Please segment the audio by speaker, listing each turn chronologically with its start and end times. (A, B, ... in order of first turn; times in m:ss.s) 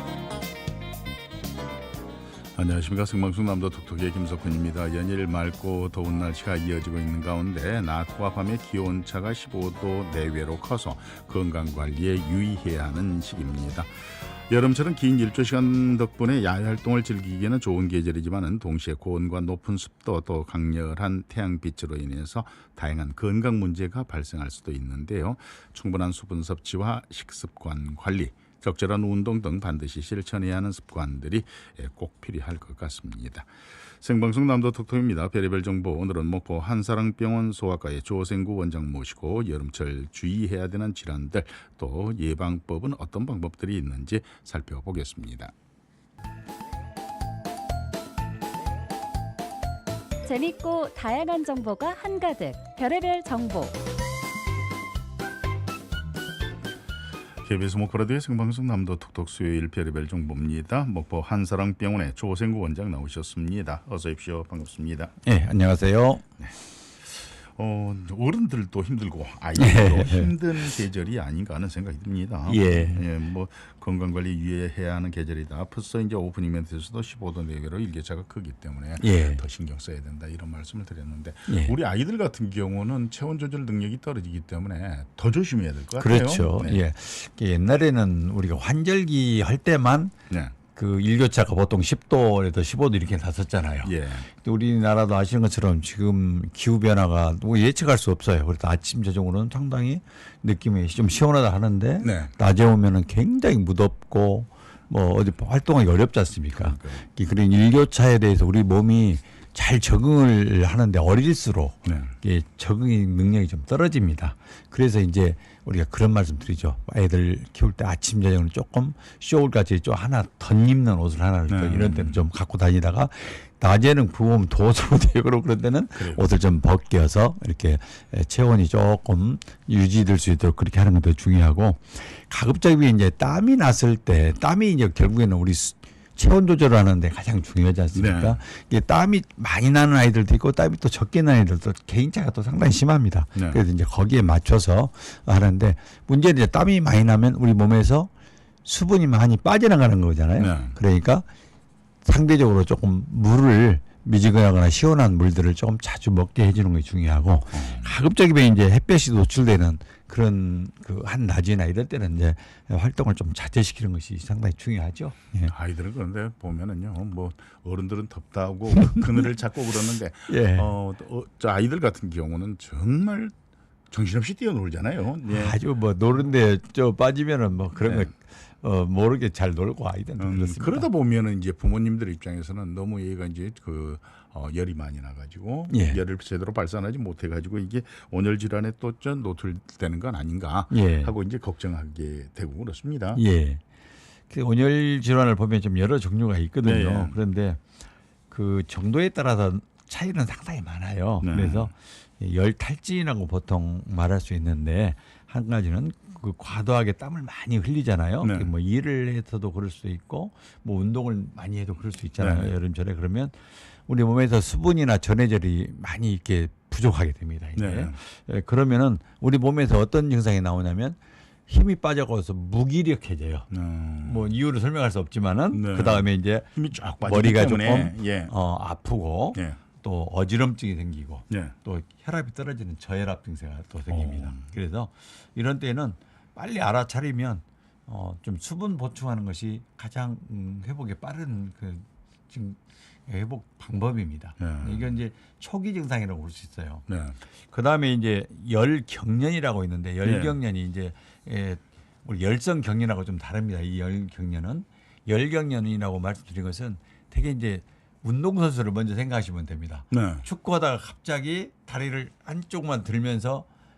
0:02.6-0:45.5 A
0:50.2-0:53.8 B
0:57.4-1:05.2 A
1:05.2-1:06.2 C
1:06.4-1:26.8 A
1:09.6-1:10.3 C
1:12.5-1:13.0 C
1:19.0-1:19.4 C
1:21.5-1:21.8 C
1:26.0-1:30.2 C
1:30.3-1:30.6 A
1:30.7-2:28.1 C
1:33.8-1:34.3 A
1:42.0-1:42.3 A
1:46.5-1:47.1 A
1:51.8-1:52.1 A
2:01.5-2:02.2 A
2:06.0-2:06.2 A
2:18.0-2:18.4 A
2:23.4-2:23.6 A
2:28.6-2:31.3 C
2:30.4-2:30.8 A
2:32.0-2:45.5 C
2:37.5-2:37.9 A
2:45.5-2:53.3 A
2:48.8-2:49.4 C
2:50.3-2:50.7 C
2:53.9-2:55.6 A
2:55.3-3:00.9 C
2:57.8-2:58.1 A
3:00.2-3:13.2 A
3:05.7-3:06.0 C
3:10.7-3:11.1 C
3:13.2-3:13.6 C
3:14.3-3:17.6 C
3:16.6-3:17.2 A
3:18.3-3:43.5 C
3:21.2-3:21.7 A
3:28.2-3:28.5 A
3:32.2-3:32.5 A
3:37.6-3:38.0 A
3:43.5-3:44.4 A
3:44.0-4:23.5 C
3:45.5-3:48.3 A
3:53.9-3:54.5 A
4:04.4-4:04.9 A
4:06.9-4:07.2 A
4:10.0-4:10.4 A
4:19.9-4:20.2 A